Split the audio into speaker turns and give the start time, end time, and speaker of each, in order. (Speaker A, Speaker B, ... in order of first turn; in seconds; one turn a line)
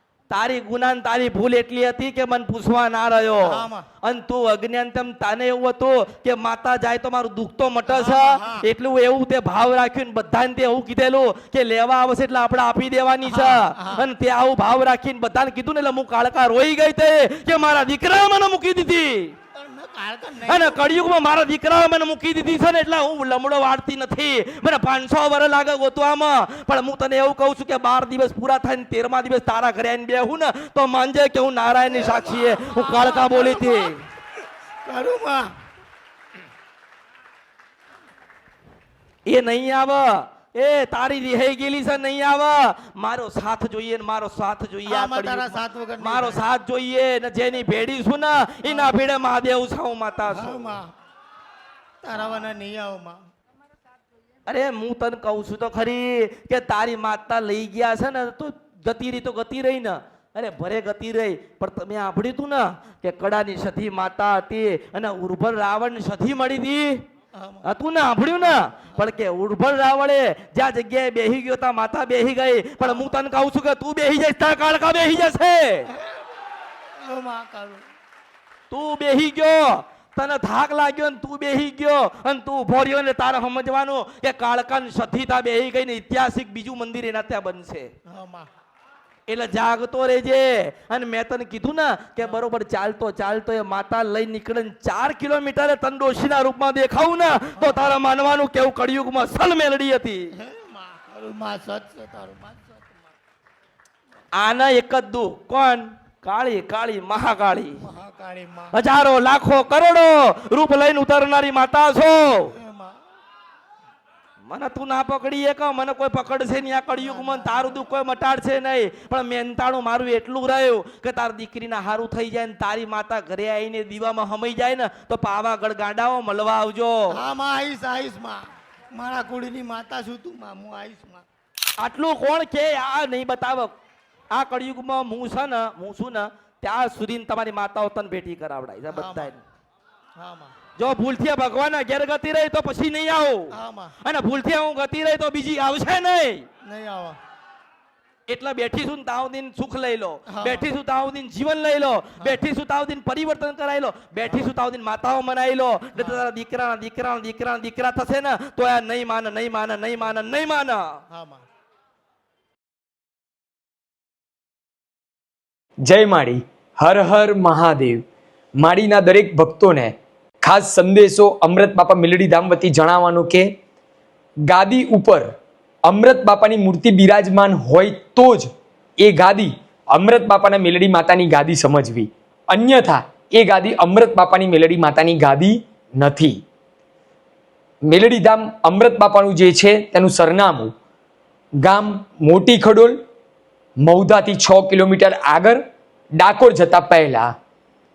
Speaker A: 0.3-19.4
Speaker B: 3.4-3.9
Speaker B: 7.9-8.6
Speaker B: 13.2-14.0
Speaker B: 19.5-20.9
Speaker A: 20.5-34.0
Speaker B: 31.9-33.9
Speaker B: 34.9-35.5
Speaker A: 39.3-50.8
Speaker B: 44.9-46.4
Speaker B: 48.6-49.0
Speaker B: 50.3-50.9
Speaker B: 52.0-53.2
Speaker A: 52.1-52.5
Speaker A: 54.5-67.0
Speaker B: 67.3-67.7
Speaker A: 67.6-75.9
Speaker B: 72.8-73.2
Speaker B: 75.9-77.8
Speaker A: 78.7-87.9
Speaker B: 88.1-88.5
Speaker A: 89.3-100.3
Speaker B: 97.6-97.9
Speaker B: 100.4-103.1
Speaker A: 104.4-107.8
Speaker B: 107.8-108.8
Speaker A: 108.7-112.5
Speaker B: 112.5-113.0
Speaker A: 114.5-127.1
Speaker B: 116.9-117.9
Speaker B: 127.1-131.2
Speaker A: 131.8-133.7
Speaker A: 134.3-139.4
Speaker B: 138.9-139.3
Speaker B: 140.2-140.6
Speaker A: 140.8-146.4
Speaker B: 143.5-143.9
Speaker B: 146.6-147.2
Speaker A: 148.3-160.9
Speaker B: 150.3-150.7
Speaker B: 152.2-152.4
Speaker B: 156.0-156.2
Speaker B: 161.1-161.4
Speaker C: 165.8-168.0
Speaker C: 168.6-173.5
Speaker C: 174.5-175.3
Speaker C: 175.9-186.4
Speaker C: 187.9-190.7
Speaker C: 191.6-192.9
Speaker C: 193.8-195.6
Speaker C: 196.2-197.3